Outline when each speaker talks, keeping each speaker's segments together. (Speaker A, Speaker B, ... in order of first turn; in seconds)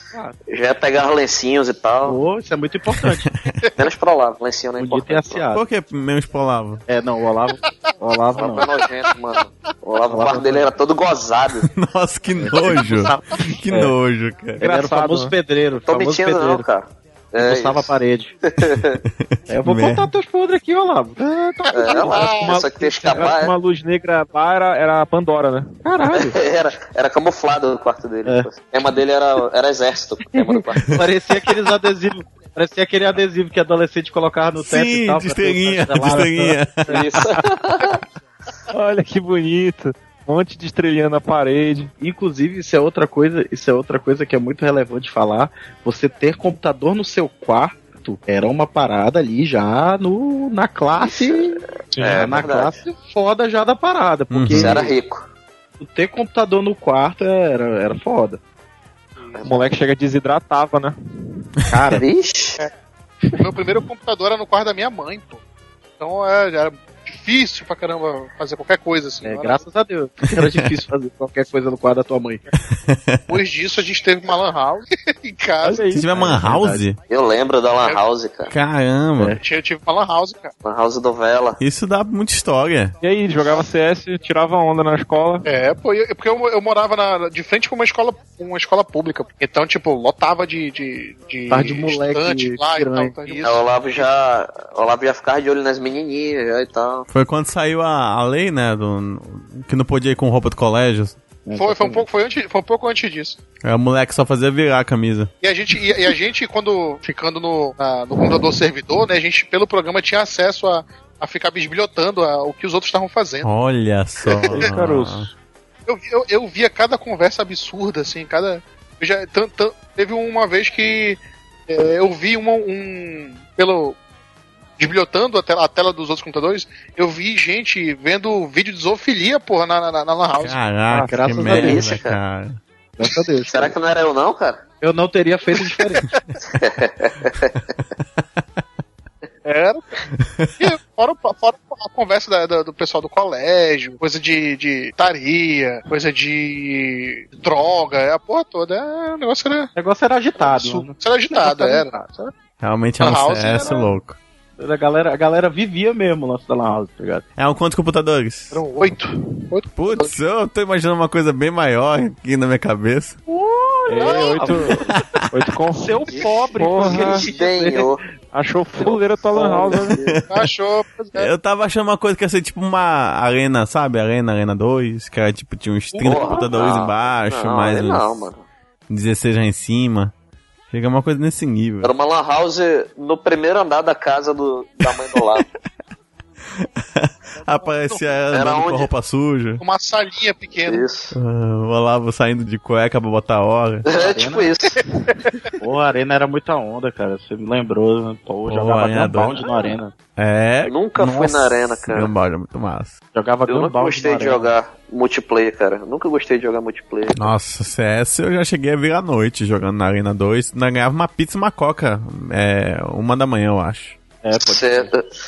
Speaker A: 0.5-2.2, 3.8-5.4, 8.3-11.7, 15.9-17.9, 18.5-19.0, 21.7-23.5, 26.1-31.0, 36.9-38.0, 51.0-52.8, 54.5-55.3, 59.3-59.7, 61.9-62.6, 77.1-78.5, 80.6-81.6, 93.4-97.1, 131.5-132.2, 133.5-134.6, 136.5-137.6, 167.0-168.0, 168.8-170.2, 176.0-178.4, 181.8-185.5, 188.3-188.9, 190.7-191.2, 193.8-194.8, 200.7-202.1, 203.5-207.3, 214.3-215.0
Speaker B: 2.0-3.3, 4.8-5.6, 6.9-8.7, 10.1-10.7, 12.4-13.9, 14.6-16.7, 17.4-18.3, 19.5-22.3, 25.8-26.4, 30.4-37.0, 42.0-54.9, 55.8-58.4, 61.7-62.0, 69.2-72.4, 76.1-76.8, 91.5-93.4, 101.5-102.1, 130.9-132.0, 133.0-133.7, 134.8-136.1, 149.8-152.3, 153.5-153.8, 154.6-157.2, 163.3-164.9, 165.7-168.0, 175.9-176.5, 187.4-188.2, 193.9-194.6, 195.6-199.9, 203.1-204.5, 214.2-214.9
Speaker C: 3.0-3.6, 5.5-6.8, 11.6-14.6, 18.8-20.1, 34.6-36.9, 54.3-54.8, 72.7-73.4, 75.9-77.0, 78.5-79.4, 81.6-83.0, 97.1-101.2, 103.6-105.3, 113.4-115.3, 130.4-132.6, 140.2-140.7, 152.6-154.2, 157.4-158.6, 159.8-163.2, 164.9-165.2, 170.0-170.5, 171.2-178.1, 178.9-180.1, 180.7-181.9, 186.6-189.6, 191.1-193.9, 198.5-199.5, 200.2-203.0, 207.2-214.0
Speaker D: 14.6-15.3, 22.4-25.8, 38.7-41.9, 51.9-52.4, 59.4-61.0, 75.6-76.1, 83.0-85.5, 114.5-115.3, 163.9-167.3, 168.3-170.0
Speaker E: 21.7-22.5, 63.4-65.4, 66.0-69.6, 73.3-75.9, 79.4-80.5, 85.5-94.1, 101.6-103.4, 105.4-113.5, 114.3-114.7, 115.9-124.0, 124.8-130.6, 139.4-140.0, 140.6-149.7, 150.4-151.9, 153.0-153.9, 158.5-160.1, 164.0-164.5, 170.3-171.3, 189.6-190.9, 195.1-195.5